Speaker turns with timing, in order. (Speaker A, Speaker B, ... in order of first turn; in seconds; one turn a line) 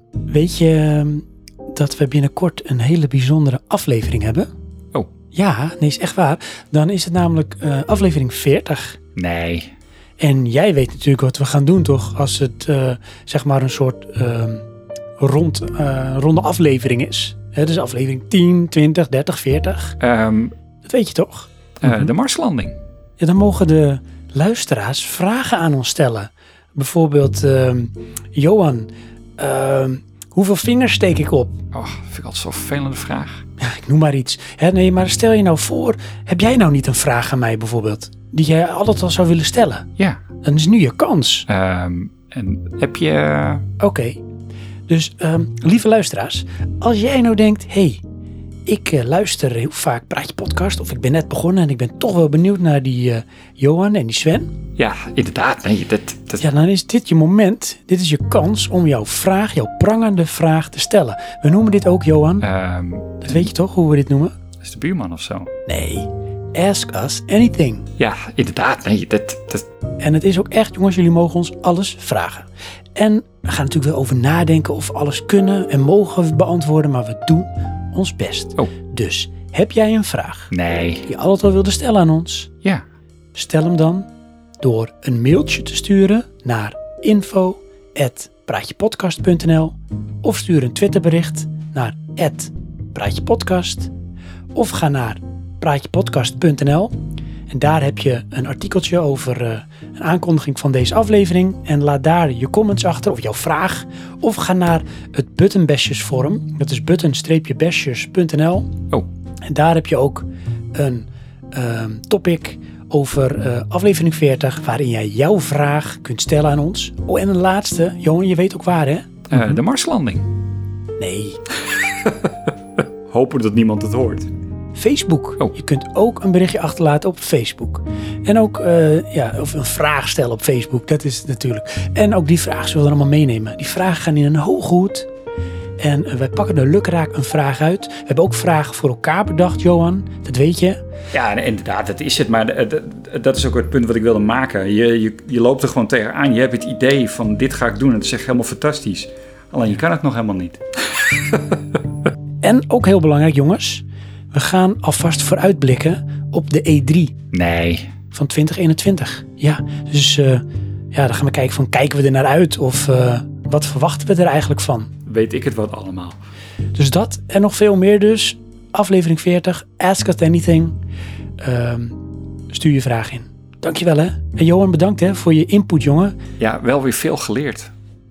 Speaker A: 0.3-4.5
Speaker A: 5.3-9.0
Speaker B: 9.2-9.7
Speaker A: 10.2-14.6
Speaker A: 15.2-20.0
Speaker B: 20.0-20.5
Speaker A: 20.8-22.1
Speaker B: 21.8-22.8
Speaker A: 23.2-31.6
Speaker B: 31.7-33.4
Speaker A: 33.6-39.9
Speaker A: 40.4-41.5
Speaker B: 41.5-43.6
Speaker A: 43.8-44.2
Speaker A: 44.9-48.0
Speaker A: 48.6-54.5
Speaker B: 54.8-56.4
Speaker A: 56.4-62.5
Speaker B: 62.4-63.5
Speaker A: 63.2-64.3
Speaker B: 64.6-65.5
Speaker A: 65.7-67.9
Speaker B: 68.0-69.7
Speaker A: 70.0-80.5
Speaker B: 80.5-81.0
Speaker A: 81.0-82.5
Speaker A: 83.3-84.1
Speaker A: 84.6-93.9
Speaker A: 94.5-96.9
Speaker A: 97.5-108.7
Speaker A: 109.5-119.4
Speaker B: 119.3-120.3
Speaker A: 121.0-121.4
Speaker B: 121.7-122.5
Speaker B: 123.1-124.3
Speaker A: 124.7-135.1
Speaker A: 135.8-140.8
Speaker B: 141.1-151.8
Speaker A: 152.4-157.1
Speaker B: 157.3-157.9
Speaker A: 158.1-164.9
Speaker B: 165.1-166.2
Speaker A: 166.7-170.7
Speaker A: 171.4-172.0
Speaker A: 172.5-176.2
Speaker B: 176.4-177.7